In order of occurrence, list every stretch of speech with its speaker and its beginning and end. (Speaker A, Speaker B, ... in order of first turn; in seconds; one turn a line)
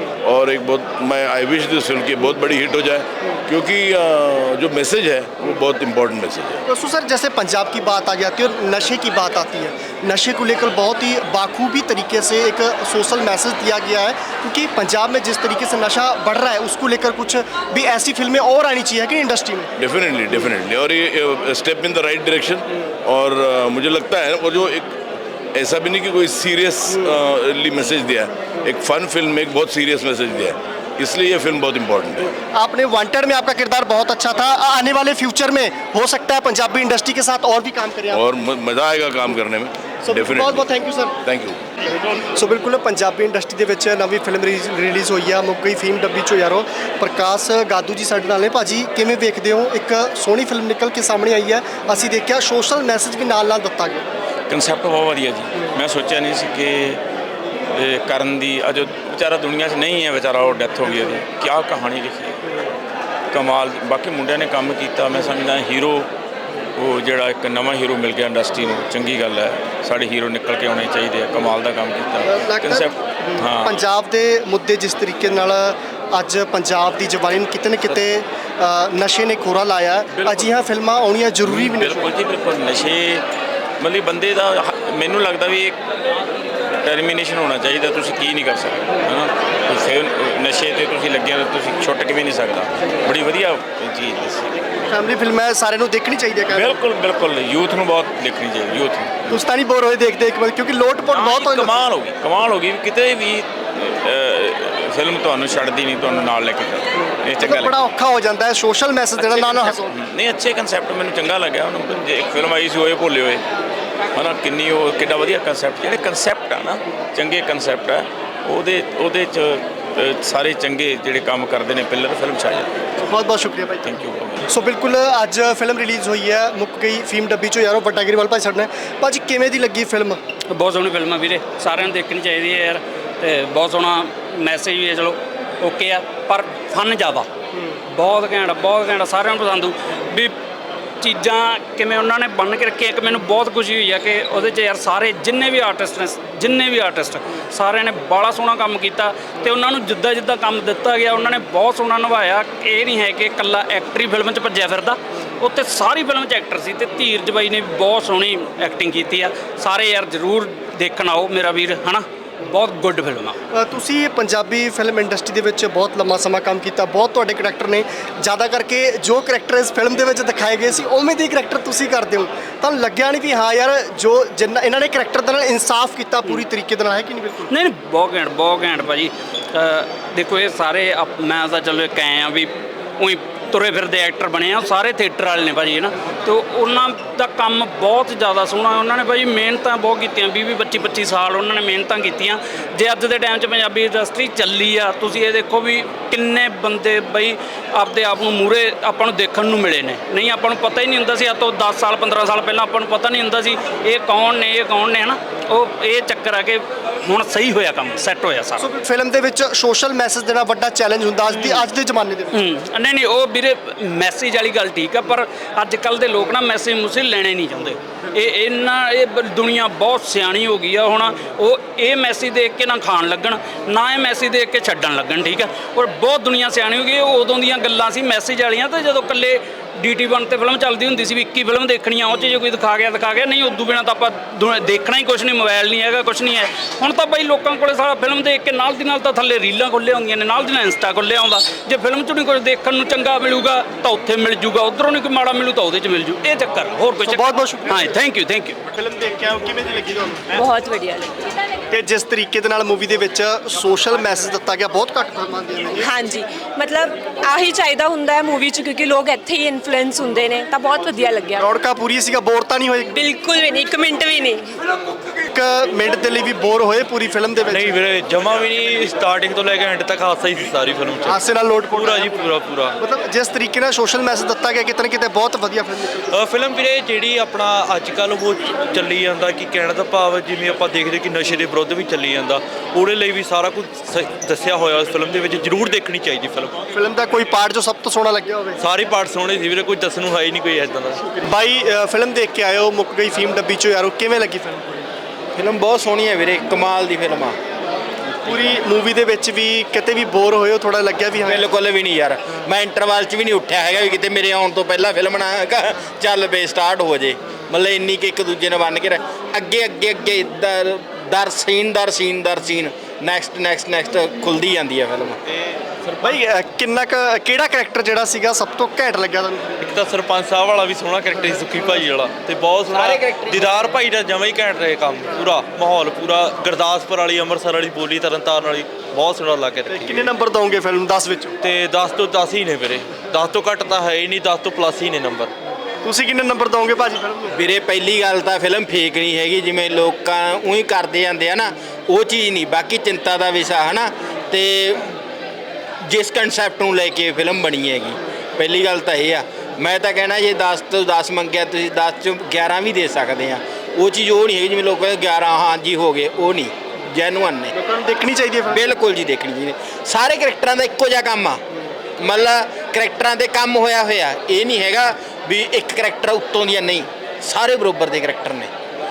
Speaker A: 0.2-6.6
Speaker B: 6.7-19.7
Speaker A: 19.8-25.0
Speaker A: 25.5-32.2
Speaker B: 32.5-38.2
Speaker A: 38.1-40.6
Speaker B: 40.0-41.1
Speaker A: 41.2-41.6
Speaker B: 42.0-54.0
Speaker C: 54.5-57.0
Speaker C: 57.7-62.4
Speaker C: 63.3-66.1
Speaker C: 66.8-73.8
Speaker B: 72.2-82.1
Speaker C: 80.2-80.5
Speaker C: 81.4-83.2
Speaker C: 83.8-85.8
Speaker C: 86.8-94.9
Speaker B: 94.9-96.8
Speaker C: 96.5-99.4
Speaker B: 99.3-101.8
Speaker C: 101.1-107.7
Speaker B: 107.4-109.9
Speaker D: 109.2-109.8
Speaker C: 109.5-113.4
Speaker C: 114.1-122.7
Speaker B: 123.0-124.0
Speaker C: 123.8-124.4
Speaker B: 124.5-130.2
Speaker E: 130.5-137.3
Speaker E: 137.9-140.3
Speaker E: 141.0-163.3
Speaker B: 163.5-177.5
Speaker E: 177.5-208.7
Speaker B: 208.6-212.4
Speaker E: 211.4-211.6
Speaker E: 212.3-248.6
Speaker B: 247.0-248.0
Speaker B: 248.7-250.3
Speaker F: 250.3-251.3
Speaker B: 251.7-255.9
Speaker F: 255.8-261.4
Speaker B: 261.4-263.0
Speaker F: 262.9-264.4
Speaker B: 265.3-267.7
Speaker D: 267.4-272.7
Speaker B: 271.1-276.1
Speaker D: 276.1-286.6
Speaker B: 286.7-288.6
Speaker D: 288.6-291.0
Speaker B: 291.2-294.9
Speaker G: 295.3-297.4
Speaker B: 298.2-301.4
Speaker G: 301.2-315.2
Speaker D: 315.8-316.2
Speaker B: 316.0-319.6
Speaker D: 319.6-330.1
Speaker G: 322.7-323.4
Speaker B: 329.7-331.3
Speaker D: 331.4-335.3
Speaker B: 335.8-337.3
Speaker G: 337.3-344.8
Speaker G: 345.9-357.5
Speaker B: 357.5-358.7
Speaker G: 358.5-361.4
Speaker G: 362.0-368.5